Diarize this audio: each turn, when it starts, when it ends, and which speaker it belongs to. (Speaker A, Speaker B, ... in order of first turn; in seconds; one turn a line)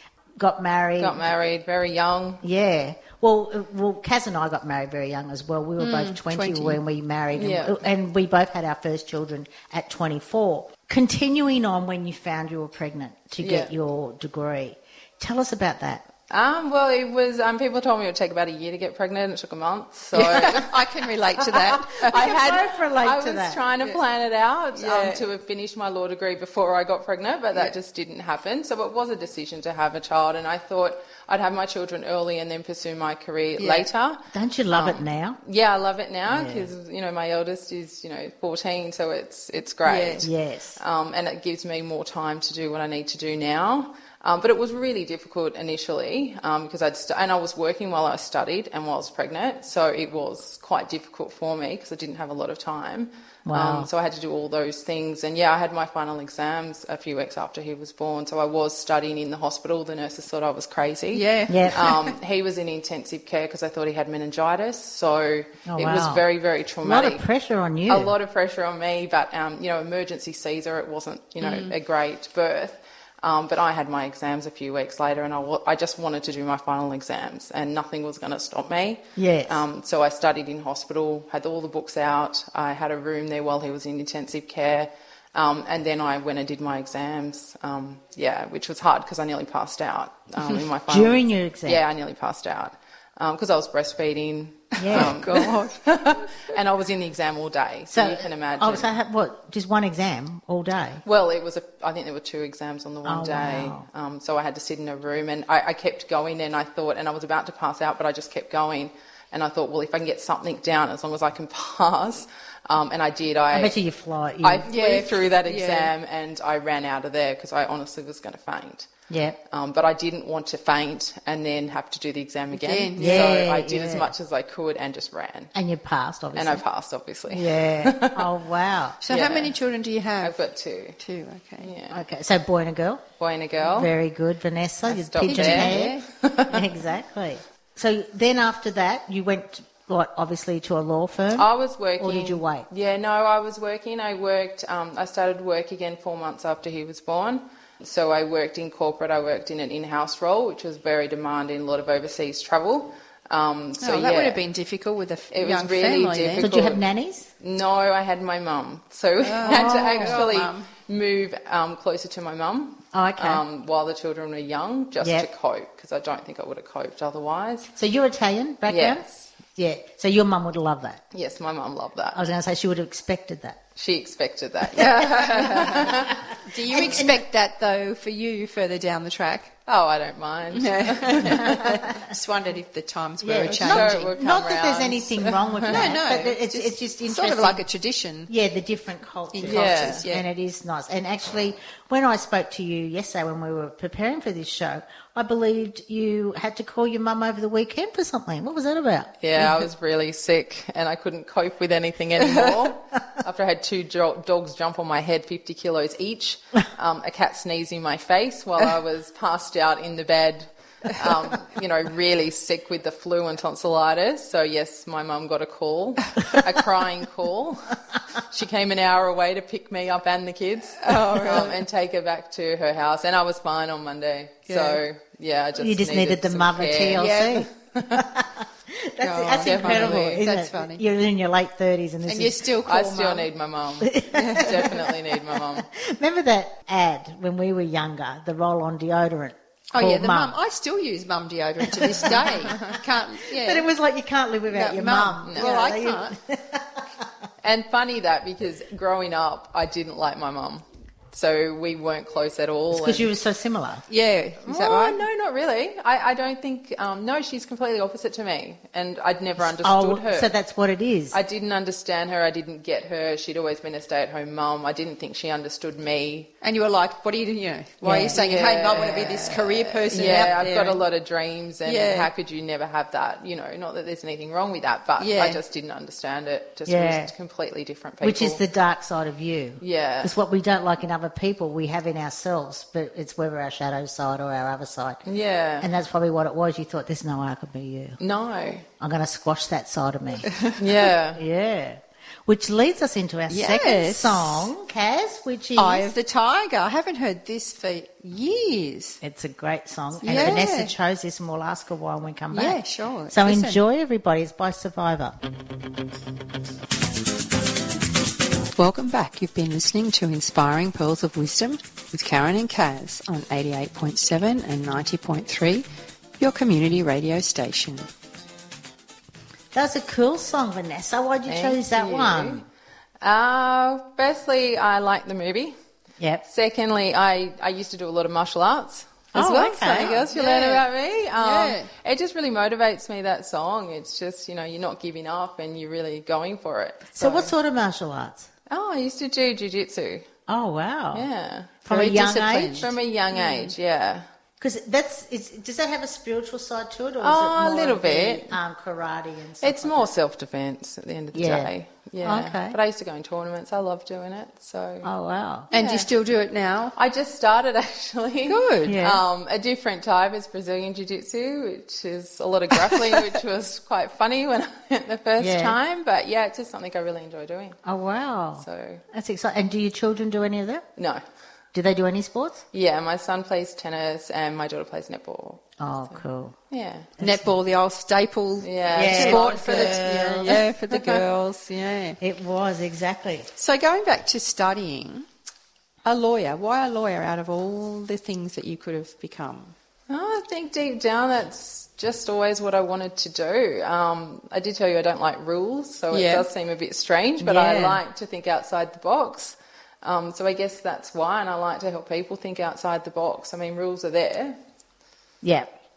Speaker A: 0.4-1.3
Speaker B: 1.0-2.4
Speaker A: 2.4-16.0
Speaker C: 5.8-6.8
Speaker B: 7.3-7.8
Speaker B: 13.4-13.7
Speaker B: 16.3-20.8
Speaker C: 20.1-22.6
Speaker B: 21.5-67.2
Speaker A: 22.1-23.6
Speaker C: 24.8-25.2
Speaker C: 33.6-33.9
Speaker A: 34.3-35.4
Speaker A: 36.3-36.7
Speaker C: 39.9-40.3
Speaker A: 40.2-40.8
Speaker A: 53.5-53.9
Speaker C: 61.1-62.1
Speaker A: 61.5-61.9
Speaker A: 65.7-66.2
Speaker A: 66.8-68.2
Speaker B: 67.9-98.9
Speaker C: 71.4-71.7
Speaker A: 79.2-79.6
Speaker A: 90.9-91.8
Speaker A: 94.8-95.3
Speaker C: 94.9-95.8
Speaker A: 97.9-101.0
Speaker B: 101.0-113.8
Speaker A: 103.0-103.8
Speaker A: 113.5-114.7
Speaker B: 114.4-118.9
Speaker C: 114.7-115.9
Speaker A: 119.1-119.4
Speaker B: 119.5-125.5
Speaker C: 122.5-123.4
Speaker A: 123.0-124.1
Speaker A: 125.5-126.6
Speaker B: 126.3-128.3
Speaker A: 127.3-129.0
Speaker C: 129.0-130.4
Speaker B: 129.1-129.5
Speaker B: 130.2-131.0
Speaker C: 131.0-131.7
Speaker B: 131.6-132.0
Speaker A: 131.9-133.0
Speaker B: 133.2-133.9
Speaker A: 133.6-142.7
Speaker B: 134.8-136.7
Speaker C: 135.2-136.1
Speaker B: 141.3-154.4
Speaker C: 153.8-156.5
Speaker B: 155.3-156.8
Speaker A: 156.4-157.3
Speaker B: 157.4-167.7
Speaker C: 159.2-160.7
Speaker A: 159.4-160.3
Speaker A: 162.9-163.4
Speaker A: 165.0-165.3
Speaker A: 167.8-171.0
Speaker B: 168.7-169.3
Speaker B: 171.1-172.2
Speaker A: 172.1-173.6
Speaker B: 173.8-177.0
Speaker C: 174.7-179.5
Speaker A: 176.7-177.2
Speaker B: 179.7-181.8
Speaker C: 180.5-184.1
Speaker A: 183.2-187.6
Speaker B: 183.4-186.0
Speaker C: 185.7-188.3
Speaker A: 188.3-199.7
Speaker C: 189.3-190.2
Speaker B: 189.5-190.0
Speaker B: 199.2-228.1
Speaker C: 220.8-221.6
Speaker C: 224.5-224.8
Speaker A: 225.6-232.4
Speaker C: 227.0-227.5
Speaker C: 229.0-230.8
Speaker B: 229.4-230.2
Speaker C: 232.1-233.3
Speaker B: 232.6-235.7
Speaker A: 233.8-240.4
Speaker C: 234.1-234.5
Speaker C: 239.7-243.7
Speaker A: 241.7-247.1
Speaker C: 244.5-246.2
Speaker B: 247.4-253.1
Speaker A: 252.7-253.8
Speaker C: 253.9-255.0
Speaker B: 254.4-260.3
Speaker A: 259.4-261.2
Speaker B: 261.1-266.3
Speaker C: 266.4-270.8
Speaker A: 267.8-268.2
Speaker B: 268.1-278.4
Speaker C: 271.6-272.1
Speaker C: 275.0-275.4
Speaker A: 276.6-277.1
Speaker A: 278.0-285.0
Speaker B: 279.6-280.1
Speaker B: 285.1-285.7
Speaker A: 285.6-288.0
Speaker B: 288.0-288.6
Speaker A: 288.8-290.4
Speaker C: 290.3-290.6
Speaker B: 290.6-291.2
Speaker A: 291.1-295.9
Speaker C: 293.3-294.5
Speaker C: 295.6-299.0
Speaker A: 299.0-305.2
Speaker C: 300.0-300.7
Speaker C: 302.3-303.6
Speaker C: 308.6-315.6
Speaker C: 316.2-317.9
Speaker A: 319.5-322.4
Speaker B: 321.3-322.4
Speaker B: 323.0-325.5
Speaker A: 326.0-326.2
Speaker B: 326.3-337.3
Speaker A: 329.1-330.0
Speaker C: 329.1-330.6
Speaker C: 331.2-331.7
Speaker A: 337.0-338.3
Speaker B: 338.5-340.1
Speaker A: 340.3-341.1
Speaker B: 340.9-341.6
Speaker A: 341.6-342.7
Speaker C: 341.7-343.5
Speaker B: 342.6-344.0
Speaker A: 344.4-349.9
Speaker B: 347.0-348.4
Speaker B: 349.4-354.9
Speaker A: 351.1-352.6
Speaker A: 354.8-355.5
Speaker B: 355.5-355.9
Speaker C: 355.5-356.8
Speaker B: 356.8-367.6
Speaker C: 358.2-358.8
Speaker A: 358.6-359.0
Speaker A: 365.2-365.6
Speaker A: 367.6-370.6
Speaker B: 368.4-368.8
Speaker B: 370.8-371.0
Speaker A: 371.5-372.4
Speaker B: 372.5-375.5
Speaker A: 375.6-376.4
Speaker B: 376.5-376.9
Speaker A: 377.0-377.3
Speaker C: 377.0-382.0
Speaker B: 378.4-381.0
Speaker A: 378.7-380.4
Speaker A: 382.0-383.3
Speaker C: 383.4-385.1
Speaker C: 385.9-389.5
Speaker B: 389.9-404.4
Speaker C: 395.9-396.3
Speaker A: 397.3-397.8
Speaker A: 405.2-405.5